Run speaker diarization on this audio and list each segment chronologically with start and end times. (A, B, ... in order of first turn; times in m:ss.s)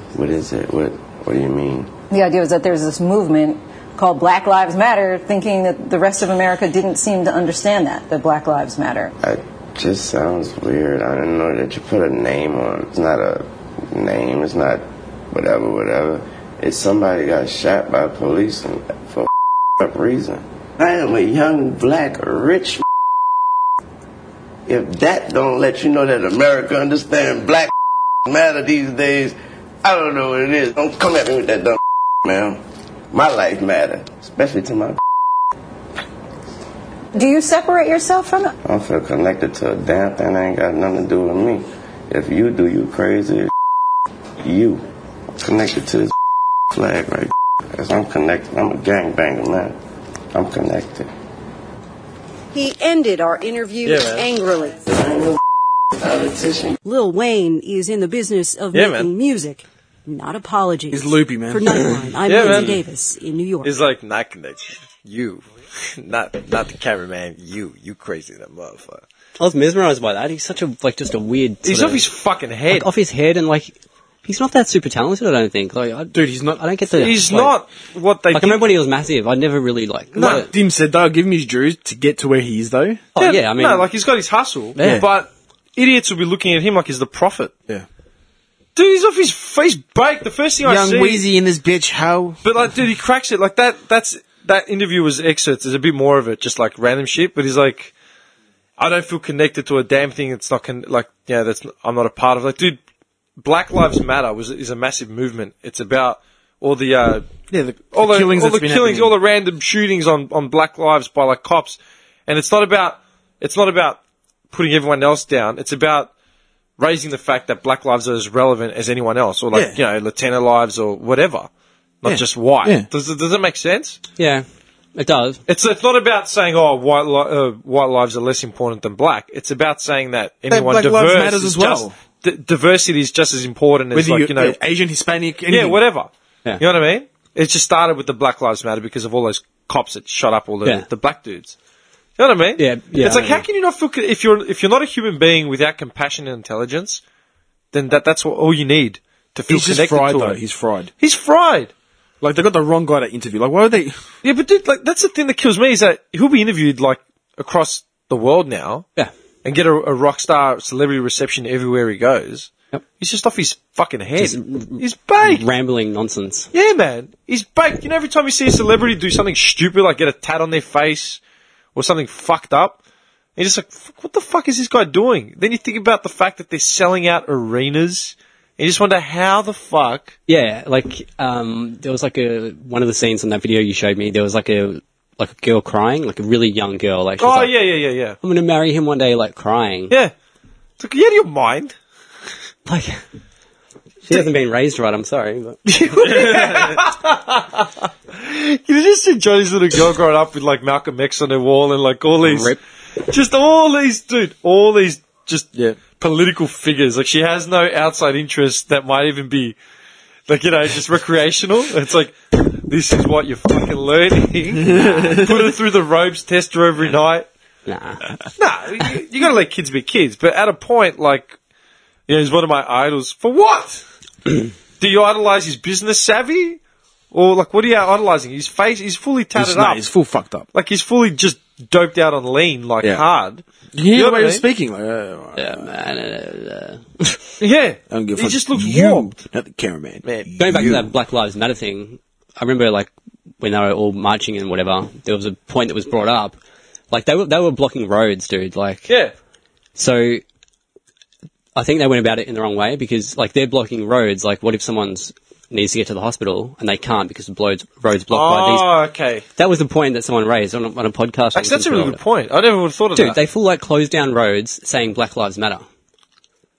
0:00.1-0:01.9 A
0:02.1-0:09.1 B
0:09.2-0:22.8 A
0:24.7-0:27.7 A
0:28.3-0:35.0 A
0:37.1-0:38.5 B
0:38.6-0:43.5 A
0:44.4-0:44.8 A
0:45.4-0:46.1 A
0:46.7-0:49.8 A
0:50.3-0:51.1 A
0:52.5-0:54.8 C
0:53.8-0:54.3 D
0:54.9-0:55.4 A
0:56.0-0:56.7 A
0:56.8-1:03.7 C
0:58.7-0:59.1 D
1:00.9-1:02.0 E
1:02.2-1:02.8 D
1:03.6-1:09.0 D
1:09.4-1:12.1 F
1:11.6-1:12.9 D
1:12.7-1:17.6 F
1:16.1-1:16.7 E
1:16.9-1:18.7 D
1:18.3-1:20.5 F
1:20.2-1:20.4 D
1:20.2-1:23.0 E
1:23.2-1:27.5 D
1:23.2-1:23.9 F
1:24.8-1:25.0 F
1:24.8-1:25.1 E
1:28.7-1:31.2 D
1:30.6-1:32.4 E
1:32.4-1:37.9 D
1:38.8-1:42.8 D
1:43.4-1:47.3 D
1:47.5-1:49.1 E
1:47.9-1:54.0 D
1:54.5-1:56.1 D
1:56.8-2:01.5 D
1:59.5-1:59.8 E
2:02.0-2:04.0 D
2:02.0-2:02.9 E
2:04.2-2:05.4 F
2:05.5-2:14.6 D
2:10.5-2:12.0 E
2:13.9-2:15.8 E
2:15.5-2:21.6 D
2:22.2-2:27.0 D
2:22.6-2:23.4 F
2:27.7-2:30.4 D
2:29.5-2:30.9 E
2:31.0-2:31.7 D
2:32.2-2:34.0 E
2:34.2-2:38.8 D
2:39.4-2:45.4 D
2:44.2-2:46.5 F
2:46.5-2:51.2 D
2:51.7-2:52.8 D
2:53.4-3:00.1 D
3:00.3-3:07.6 F
3:07.2-3:08.2 D
3:08.2-3:10.0 F
3:10.8-3:11.8 D
3:12.7-3:13.0 F
3:14.1-3:15.6 F
3:15.7-3:22.6 D
3:16.4-3:16.7 E
3:22.2-3:22.6 F
3:23.1-3:29.6 D
3:25.5-3:25.8 E
3:30.3-3:37.3 D
3:34.7-3:35.3 F
3:34.7-3:35.2 E
3:37.7-3:38.0 F
3:38.4-3:41.4 D
3:42.1-3:43.8 D
3:44.8-3:46.6 D
3:47.1-3:49.8 D
3:49.4-3:50.5 E
3:50.5-3:54.4 D
3:53.7-3:55.7 E
3:55.4-3:57.2 F
3:57.4-3:59.1 D
3:57.9-4:00.9 E
4:00.0-4:00.7 D
4:00.4-4:06.4 F
4:06.9-4:09.0 F
4:09.8-4:10.2 F
4:11.6-4:18.7 F
4:18.1-4:19.2 D
4:19.4-4:22.0 F
4:21.3-4:23.2 D
4:23.0-4:25.6 F